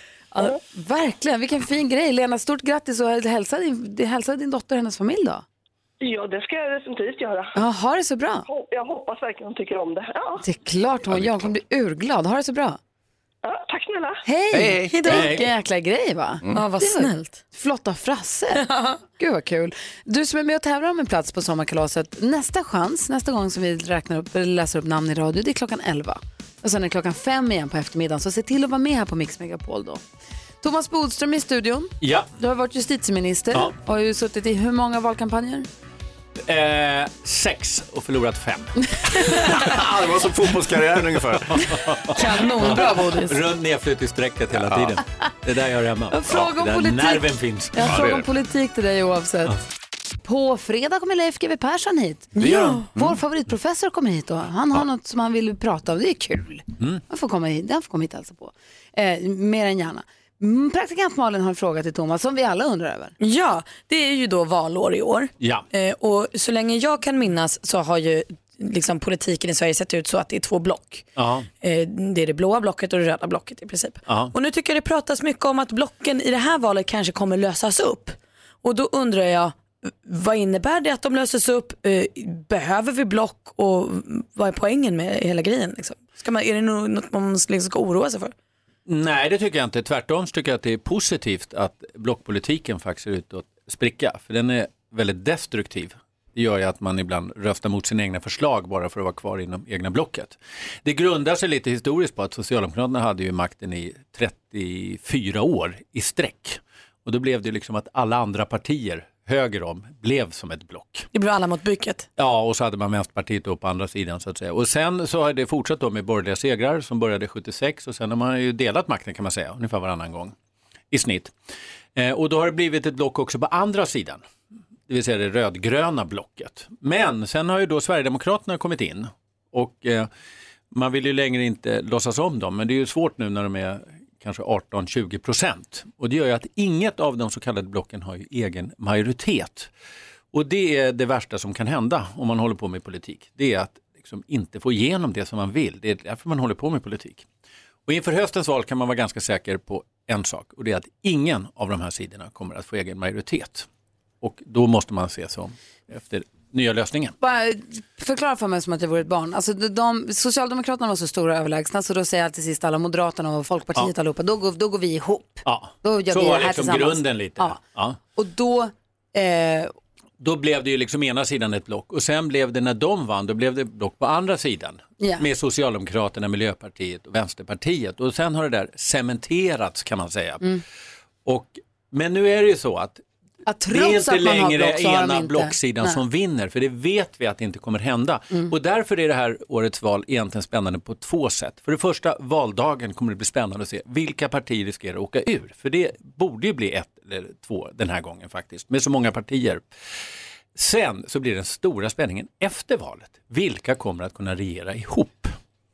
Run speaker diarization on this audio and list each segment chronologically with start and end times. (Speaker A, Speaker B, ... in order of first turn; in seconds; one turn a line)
Speaker A: 0.3-5.4
Speaker B: 6.0-7.5
Speaker A: 7.5-8.5
Speaker B: 8.5-10.4
Speaker A: 10.4-12.8
Speaker C: 11.1-11.5
Speaker B: 13.4-14.2
Speaker A: 14.2-30.0
Speaker C: 14.5-15.2
Speaker D: 14.9-15.4
Speaker D: 16.5-17.4
Speaker D: 18.6-19.0
Speaker A: 30.6-35.7
Speaker E: 32.0-32.3
Speaker E: 36.5-39.3
Speaker C: 39.5-41.7
Speaker E: 41.5-47.9
Speaker D: 42.1-43.4
Speaker A: 42.6-43.1
Speaker C: 44.5-45.0
Speaker A: 46.1-49.6
Speaker C: 47.8-48.2
Speaker A: 50.2-63.1
Speaker D: 52.4-52.9
Speaker C: 52.4-53.2
Speaker D: 63.2-71.1
Speaker E: 65.4-65.7
Speaker E: 71.2-71.5
Speaker D: 71.6-88.3
Speaker E: 74.1-74.3
Speaker E: 88.9-111.1
Speaker D: 111.1-112.1
Speaker E: 112.2-120.3
Speaker E: 120.9-121.3
Speaker E: 122.0-124.2
Speaker E: 124.9-130.1
Speaker E: 130.7-139.7
Speaker E: 140.3-147.3
Speaker E: 147.9-153.7
Speaker E: 154.2-157.2
Speaker A: 157.2-167.6
Speaker E: 165.4-168.0
Speaker A: 168.2-169.7
Speaker E: 170.2-180.6
Speaker A: 175.0-175.3
Speaker E: 181.2-183.0
Speaker A: 183.5-186.0
Speaker E: 183.7-199.7
Speaker E: 200.6-205.3